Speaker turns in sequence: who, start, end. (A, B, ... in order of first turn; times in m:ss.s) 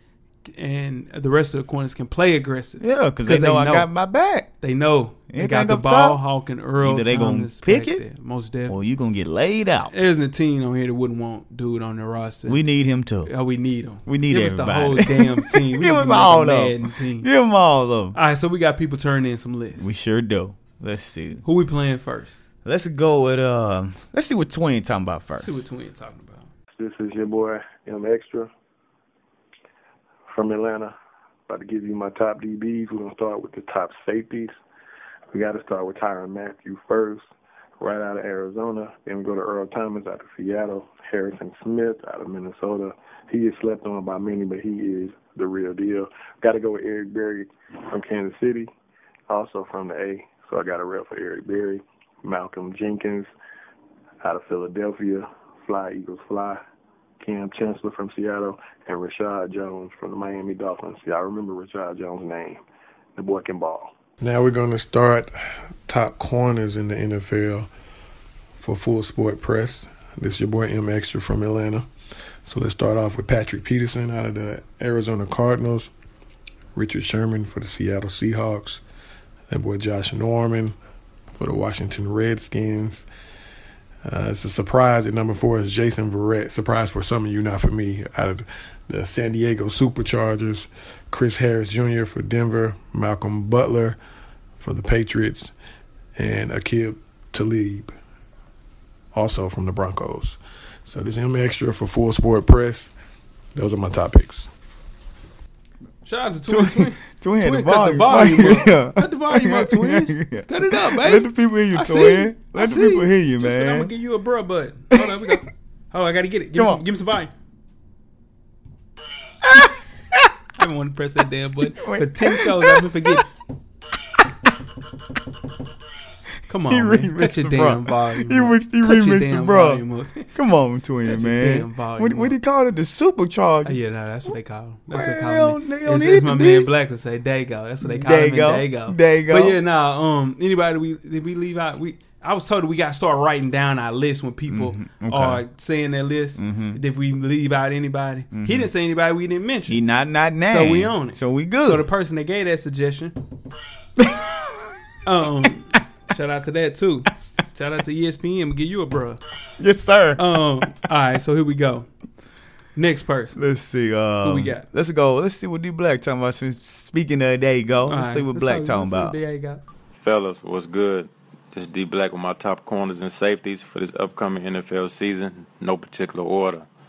0:00.4-0:03.9 A
0:02.8-0:04.5 B
0:04.6-0:08.8 A
0:05.3-0:06.2 B
0:06.8-0:08.0 B
0:08.7-0:09.9 B
0:09.9-0:12.6 A
0:12.5-0:13.3 B
0:13.2-0:17.3 A
0:14.0-0:18.2 B
0:18.1-0:19.9 A
0:19.8-0:21.4 B
0:21.4-0:22.4 A
0:22.6-0:25.6 B
0:25.4-0:26.5 A
0:26.8-0:28.5 C
0:30.3-0:30.9 C
0:31.5-0:34.5 C
0:35.3-0:37.3 C
0:37.8-0:48.7 C
0:49.3-0:53.3 C
0:54.2-0:56.6 C
0:57.2-1:02.6 C
1:03.2-1:04.0 C
1:04.2-1:05.3 D
1:05.8-1:07.7 D
1:08.6-1:11.9 D
1:12.4-1:15.9 D
1:16.7-1:18.8 D
1:19.5-1:20.8 D
1:21.4-1:23.0 D
1:24.0-1:34.0 D
1:34.6-1:35.5 D
1:36.2-1:37.9 D
1:39.1-1:42.9 D
1:43.5-1:44.5 D
1:46.0-1:57.3 A
1:46.5-1:53.9 B
1:54.9-1:55.4 B
1:56.5-1:56.8 B
1:59.4-2:00.3 B
2:00.6-2:03.3 A
2:01.7-2:03.2 B
2:04.2-2:04.5 B
2:06.5-2:10.3 A
2:06.5-2:14.3 B
2:11.0-2:12.4 A
2:13.6-2:29.8 A
2:14.9-2:16.7 B
2:17.8-2:19.6 B
2:24.5-2:25.4 B
2:26.4-2:26.8 B
2:28.3-2:28.7 B
2:29.7-2:31.9 B
2:30.4-2:33.1 A
2:34.0-2:34.6 B
2:35.0-2:39.2 A
2:39.6-2:40.7 B
2:40.2-2:41.9 A
2:42.8-2:43.4 A
2:43.3-2:49.2 B
2:44.2-2:44.6 A
2:47.9-2:49.6 A
2:50.0-2:56.7 E